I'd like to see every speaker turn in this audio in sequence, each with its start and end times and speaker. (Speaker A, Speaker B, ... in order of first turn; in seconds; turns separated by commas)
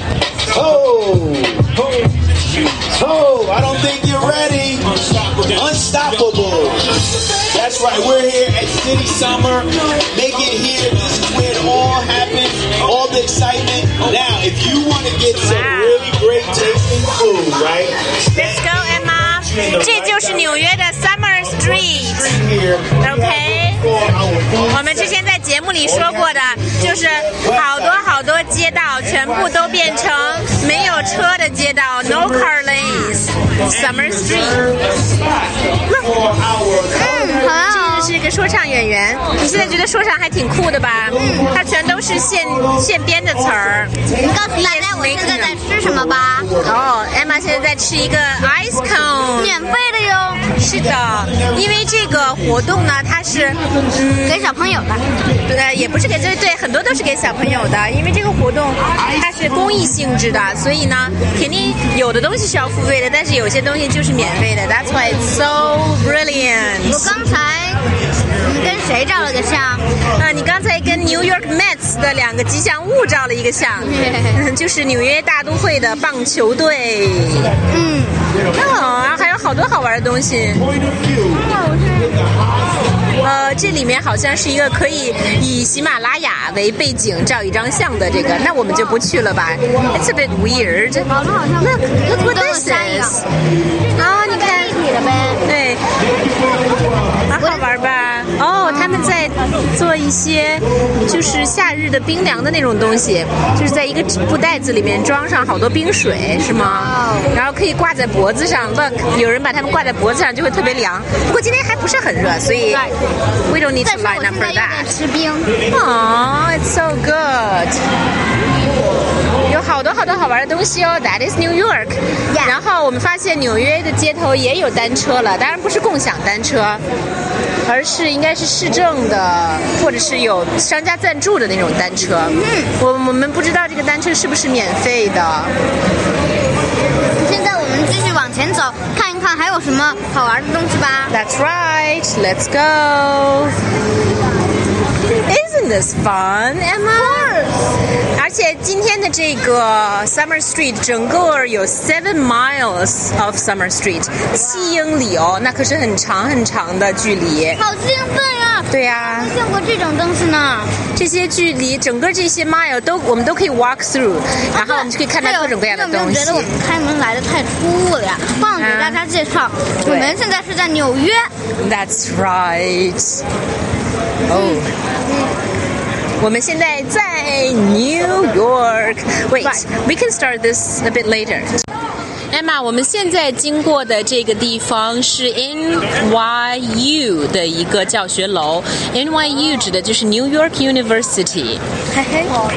Speaker A: 0.5-1.9, Speaker A: 2.7-18.4, Speaker B: 15.3-16.1, Speaker B: 18.3-22.4, Speaker A: 19.5-19.9, Speaker A: 22.3-24.7, Speaker B: 23.0-23.9, Speaker B: 24.6-34.8, Speaker B: 35.9-36.3, Speaker A: 36.2-37.4, Speaker C: 36.9-38.2, Speaker B: 37.4-44.0, Speaker C: 41.1-41.5, Speaker C: 44.1-46.5, Speaker B: 44.5-45.6, Speaker B: 46.6-49.7, Speaker C: 49.3-50.5, Speaker B: 50.5-54.5, Speaker C: 54.2-55.0, Speaker B: 55.5-67.2, Speaker C: 66.8-67.8, Speaker C: 68.4-69.8, Speaker B: 70.0-77.6, Speaker C: 73.8-74.4, Speaker C: 77.7-78.3, Speaker B: 78.5-80.7, Speaker C: 81.2-82.3, Speaker B: 83.2-91.1, Speaker C: 91.1-93.3, Speaker B: 91.6-93.3, Speaker C: 93.9-95.4, Speaker B: 94.0-94.8, Speaker B: 95.5-95.8, Speaker B: 97.3-112.9, Speaker C: 97.4-97.7, Speaker C: 98.6-99.3, Speaker C: 106.5-107.4, Speaker B: 113.5-114.9, Speaker C: 113.8-115.6, Speaker B: 115.7-117.8, Speaker B: 119.5-126.8, Speaker C: 122.3-122.6, Speaker B: 127.7-135.5, Speaker C: 132.2-132.7, Speaker C: 137.2-141.1, Speaker B: 141.1-143.6, Speaker B: 145.1-147.6, Speaker B: 148.2-157.6, Speaker C: 154.5-154.8, Speaker C: 157.6-160.7, Speaker B: 158.7-159.4, Speaker B: 160.9-166.5, Speaker C: 164.5-171.3, Speaker B: 168.4-169.0, Speaker B: 169.8-170.2, Speaker B: 171.6-173.2, Speaker B: 174.3-174.7, Speaker C: 174.3-175.3, Speaker B: 176.2-181.6, Speaker B: 182.3-191.6, Speaker C: 191.9-192.3